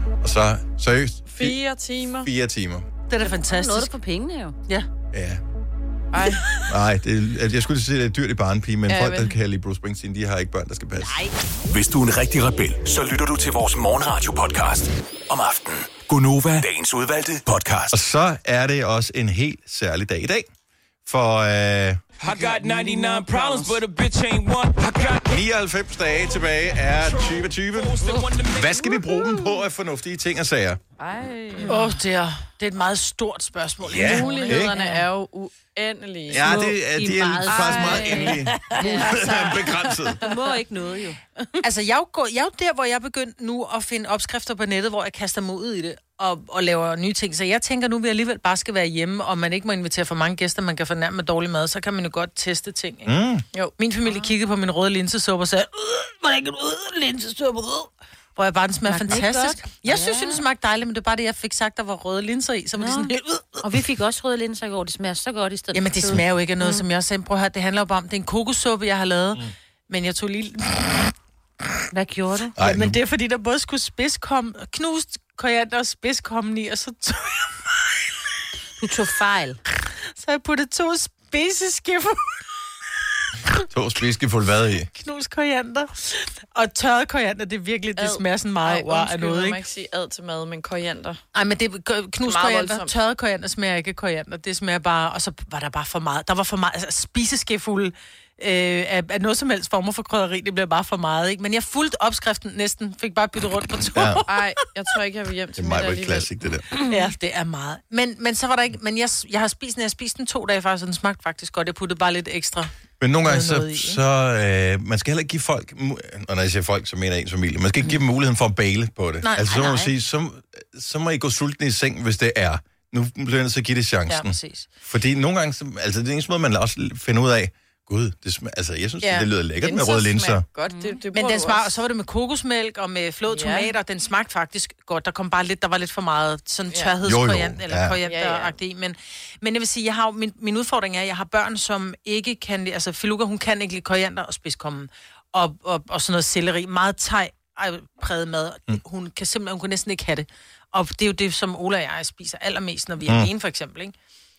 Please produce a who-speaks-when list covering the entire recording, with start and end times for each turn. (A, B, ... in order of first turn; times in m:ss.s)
0:00.2-0:01.6 A
0:01.3-0:02.3 B
0:02.2-0:02.9 A
0:03.1-0:03.9 C
0:03.2-0:04.6 D
0:05.1-0:05.4 A
0:06.1-0:06.5 B
0:06.7-0:11.2 A
0:08.9-0:09.4 B
0:11.0-0:11.3 D
0:11.7-0:18.0 E
0:17.9-0:20.5 A
0:21.0-0:22.0 A
0:22.2-0:25.4 F
0:22.4-0:23.7 D
0:25.2-0:30.8 A
0:27.0-0:29.0 F
0:31.0-0:31.9 B
0:31.7-0:35.0 C
0:33.8-0:34.7 A
0:33.9-0:36.5 B
0:36.3-0:40.2 A
0:36.3-0:39.3 D
0:37.5-0:40.4 B
0:40.2-0:41.4 D
0:41.6-0:53.1 C
0:53.0-0:53.4 A
0:53.8-1:03.6 C
0:54.0-0:54.3 D
0:58.9-1:00.4 D
1:02.8-1:06.8 D
1:05.7-1:11.1 C
1:11.9-1:12.5 D
1:12.6-1:13.0 A
1:12.6-1:17.6 C
1:18.8-1:19.6 D
1:20.1-1:22.3 C
1:23.7-1:24.9 A
1:24.9-1:29.6 C
1:28.0-1:31.2 B
1:31.3-1:44.4 C
1:32.2-1:32.9 B
1:43.8-1:44.2 A
1:44.2-1:46.3 B
1:45.6-1:46.6 A
1:46.8-1:52.7 C
1:53.0-2:10.4 A
1:53.2-1:54.0 C
1:59.2-1:59.6 C
1:59.4-1:59.9 D
2:04.1-2:04.7 C
2:09.0-2:11.8 B
2:10.7-2:11.0 D
2:11.1-2:33.9 C
2:13.3-2:13.7 B
2:17.0-2:18.0 A
2:18.0-2:18.5 B